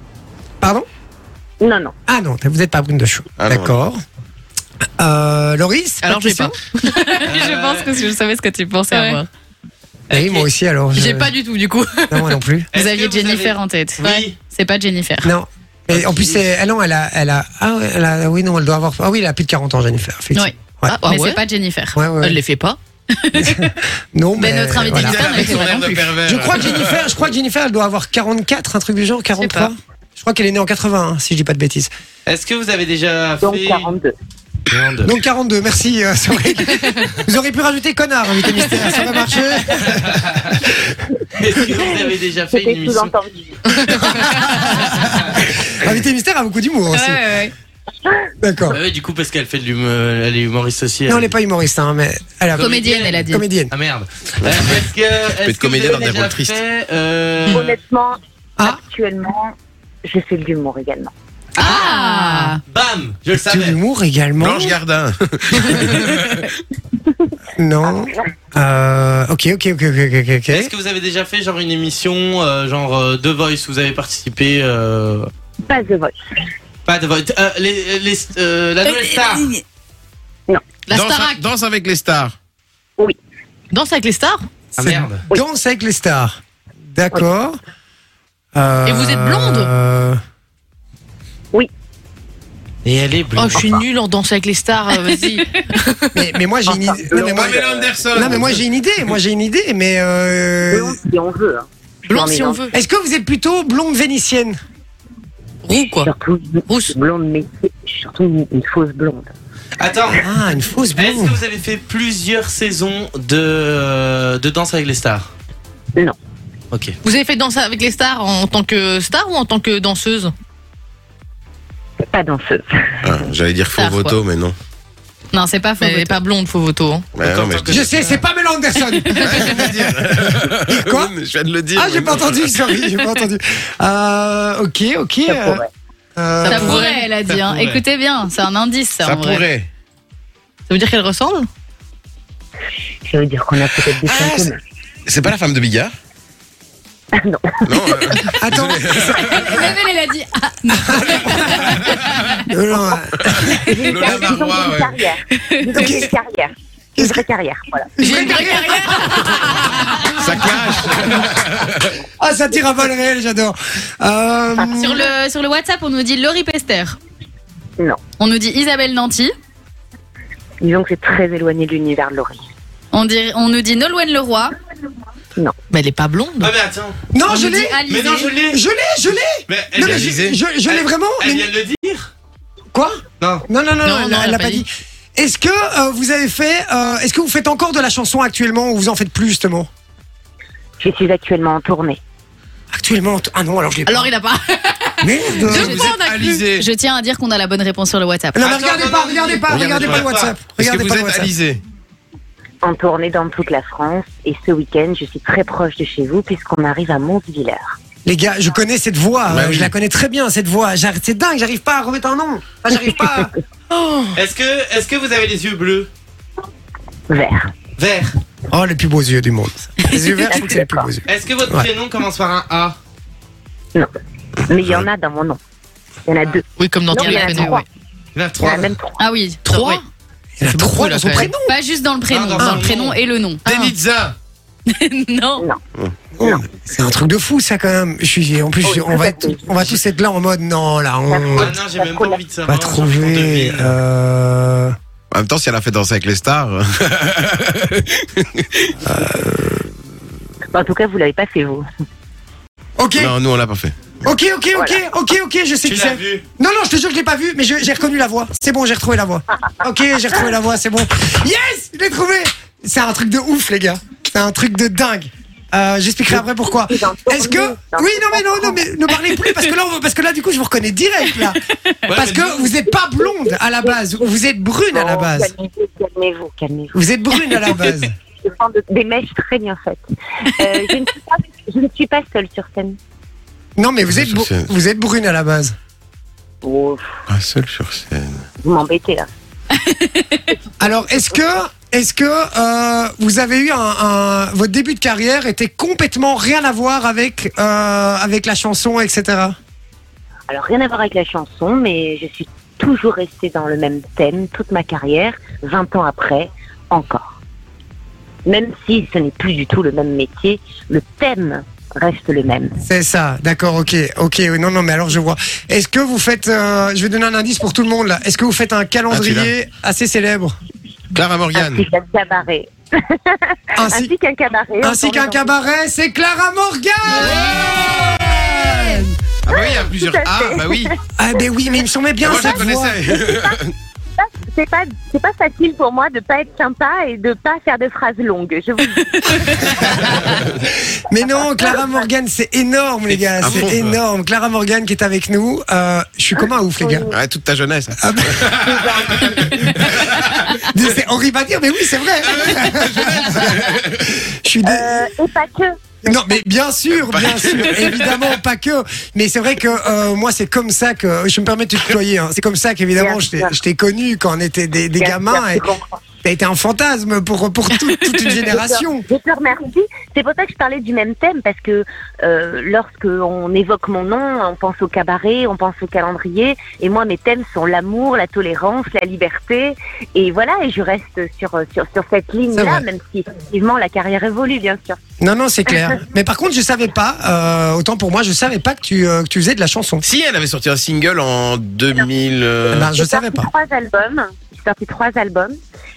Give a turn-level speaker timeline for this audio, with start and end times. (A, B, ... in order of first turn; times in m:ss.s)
0:00.6-0:00.9 A
0:01.6-0:02.0 B
0:02.1-0:04.0 A
0:03.4-0:03.8 C
0:05.0-0:06.6 A
0:06.0-0:07.2 D
0:06.9-0:09.2 E
0:07.2-0:08.0 F
0:08.9-0:09.3 D
0:10.1-0:10.5 F
0:10.1-0:11.4 A
0:10.9-0:12.4 D
0:12.1-0:12.7 A
0:12.7-0:14.4 F
0:12.7-0:15.3 E
0:15.2-0:21.0 A
0:15.9-0:16.4 F
0:20.3-0:22.1 E
0:20.9-0:21.4 D
0:21.9-0:22.4 A
0:22.2-0:22.8 D
0:23.1-0:23.7 E
0:23.4-0:25.5 A
0:24.4-0:26.0 E
0:24.9-0:27.1 C
0:26.2-0:31.9 A
0:29.4-0:29.7 E
0:32.3-0:33.9 F
0:33.4-0:34.1 B
0:34.7-0:35.1 F
0:35.0-0:40.2 A
0:40.0-0:40.6 F
0:41.4-0:43.1 F
0:42.5-0:43.6 B
0:43.9-0:47.2 A
0:44.5-0:44.8 E
0:46.9-0:47.5 E
0:48.4-0:48.8 A
0:48.7-0:51.3 F
0:51.1-0:52.7 A
0:52.5-0:57.8 F
0:52.6-0:53.4 E
0:53.3-0:53.7 A
0:54.4-0:54.7 C
0:55.4-0:56.6 C
0:57.5-0:59.5 B
1:00.0-1:01.1 B
1:01.6-1:02.6 E
1:01.6-1:02.6 D
1:02.7-1:03.8 F
1:03.4-1:04.8 A
1:04.4-1:06.6 C
1:07.6-1:10.7 A
1:07.8-1:08.3 B
1:10.5-1:15.3 F
1:15.7-1:16.2 B
1:16.9-1:19.5 F
1:18.9-1:19.6 D
1:20.9-1:21.4 D
1:20.9-1:22.4 C
1:23.7-1:24.5 D
1:24.8-1:25.2 F
1:24.8-1:26.4 A
1:26.9-1:27.6 A
1:28.6-1:30.2 A
1:28.8-1:29.7 D
1:32.8-1:33.8 F
1:33.4-1:36.2 D
1:36.1-1:41.0 A
1:36.7-1:37.8 B
1:37.1-1:38.6 C
1:40.7-1:42.7 B
1:42.1-1:42.7 D
1:42.7-1:44.6 A
1:45.6-1:46.1 D
1:46.0-1:49.3 B
1:46.7-1:47.0 D
1:49.8-1:50.2 F
1:50.2-1:51.4 A
1:51.0-1:55.3 F
1:57.0-2:00.3 D
2:02.1-2:03.0 B
2:03.0-2:04.6 C
2:03.8-2:04.2 E
2:05.3-2:06.2 E
2:05.8-2:07.1 D
2:07.2-2:07.9 C
2:07.2-2:08.2 F
2:07.7-2:10.1 A
2:09.2-2:12.5 C
2:10.7-2:11.1 A
2:11.8-2:15.6 A
2:15.3-2:15.7 B
2:16.2-2:16.9 A
2:16.4-2:19.5 E
2:16.4-2:17.0 D
2:17.2-2:17.8 F
2:19.0-2:19.7 C
2:20.7-2:21.5 D
2:23.1-2:24.6 B
2:24.0-2:24.5 A
2:25.1-2:25.9 C
2:27.2-2:28.2 B
2:27.7-2:29.7 C
2:28.3-2:29.6 A
2:29.2-2:32.5 E
2:30.9-2:31.6 A
2:32.5-2:34.3 A
2:33.6-2:38.3 B
2:33.9-2:35.0 C
2:35.4-2:35.9 E
2:35.8-2:36.1 A
2:37.0-2:37.2 A
2:38.0-2:39.8 A
2:38.0-2:39.4 D
2:39.0-2:40.2 E
2:40.2-2:42.0 C
2:42.2-2:45.0 A
2:44.6-2:44.8 B
2:44.7-2:47.0 E
2:48.2-2:49.3 E
2:50.6-2:52.4 B
2:52.9-2:54.5 E
2:55.7-2:56.5 D
2:56.4-2:57.0 F
2:57.1-3:01.5 A
2:57.2-2:58.3 E
2:57.9-2:58.6 F
2:59.5-3:02.1 F
2:59.8-3:00.4 C
3:02.7-3:09.7 A
3:03.2-3:03.4 F
3:03.8-3:04.7 D
3:10.8-3:12.0 B
3:12.7-3:14.1 A
3:13.9-3:14.4 D
3:14.6-3:18.5 E
3:15.0-3:15.9 A
3:15.5-3:16.7 C
3:15.7-3:16.5 D
3:18.4-3:21.3 A
3:18.4-3:20.4 F
3:19.5-3:21.6 C
3:22.6-3:27.8 B
3:28.0-3:33.3 A
3:29.3-3:29.7 C
3:34.2-3:35.9 F
3:37.1-3:37.5 B
3:37.8-3:38.2 F
3:38.5-3:41.7 A
3:40.2-3:40.9 B
3:41.1-3:42.8 F
3:44.5-3:45.4 B
3:46.1-3:47.6 B
3:46.6-3:47.6 D
3:47.0-3:47.5 E
3:48.2-3:48.8 F
3:48.4-3:49.0 B
3:49.0-3:49.8 E
3:49.4-3:49.8 D
3:50.4-3:51.6 A
3:50.4-3:51.3 D
3:51.4-3:53.5 E
3:52.1-3:53.0 F
3:52.4-3:52.7 A
3:53.5-3:54.1 C
3:54.7-3:55.5 E
3:56.2-4:01.6 A
3:58.6-3:59.7 B
4:01.1-4:02.2 B
4:01.4-4:03.8 F
4:02.5-4:04.8 A
4:05.1-4:08.7 C
4:08.9-4:09.7 A
4:10.5-4:11.6 B
4:12.8-4:13.1 A
4:13.0-4:14.0 C
4:14.0-4:31.4 A
4:14.6-4:14.8 B
4:15.6-4:16.2 F
4:26.1-4:28.6 B
4:31.9-4:32.5 F
4:31.9-4:35.3 A
4:33.0-4:34.0 B
4:34.7-4:36.8 B
4:36.7-4:37.9 A
4:38.2-4:42.8 B
4:43.6-4:45.6 A
4:43.9-4:44.5 C
4:46.4-4:46.8 B
4:47.1-4:48.2 C
4:48.4-4:49.1 B
4:49.6-4:50.4 E
4:50.6-4:59.4 A
5:00.3-5:07.2 B
5:08.3-5:12.6 B
5:12.6-5:20.4 A
5:18.9-5:19.3 C
5:20.9-5:21.6 C
5:21.4-5:25.4 B
5:23.6-5:23.9 A
5:24.6-5:28.9 A
5:27.0-5:28.8 E
5:29.2-5:30.7 C
5:29.3-5:30.7 B
5:31.0-5:32.8 A
5:32.0-5:33.5 C
5:32.1-5:33.4 B
5:34.0-5:39.9 B
5:39.1-5:40.1 E
5:39.9-5:40.3 C
5:40.4-5:46.9 A
5:41.0-5:41.8 B
5:43.0-5:43.8 C
5:46.2-5:47.0 B
5:46.9-5:50.4 C
5:47.8-5:48.3 A
5:48.3-5:49.7 B
5:50.5-5:53.5 A
5:52.0-5:53.9 C
5:54.0-5:54.8 A
5:54.4-5:56.2 B
5:55.9-6:05.4 A
5:56.8-5:58.0 C
6:02.8-6:03.4 B
6:04.8-6:05.8 B
6:06.0-6:08.9 A
6:08.3-6:24.8 B
6:22.3-6:22.6 A
6:25.0-6:29.8 A
6:29.8-6:32.7 C
6:32.5-6:33.3 A
6:32.7-6:35.4 B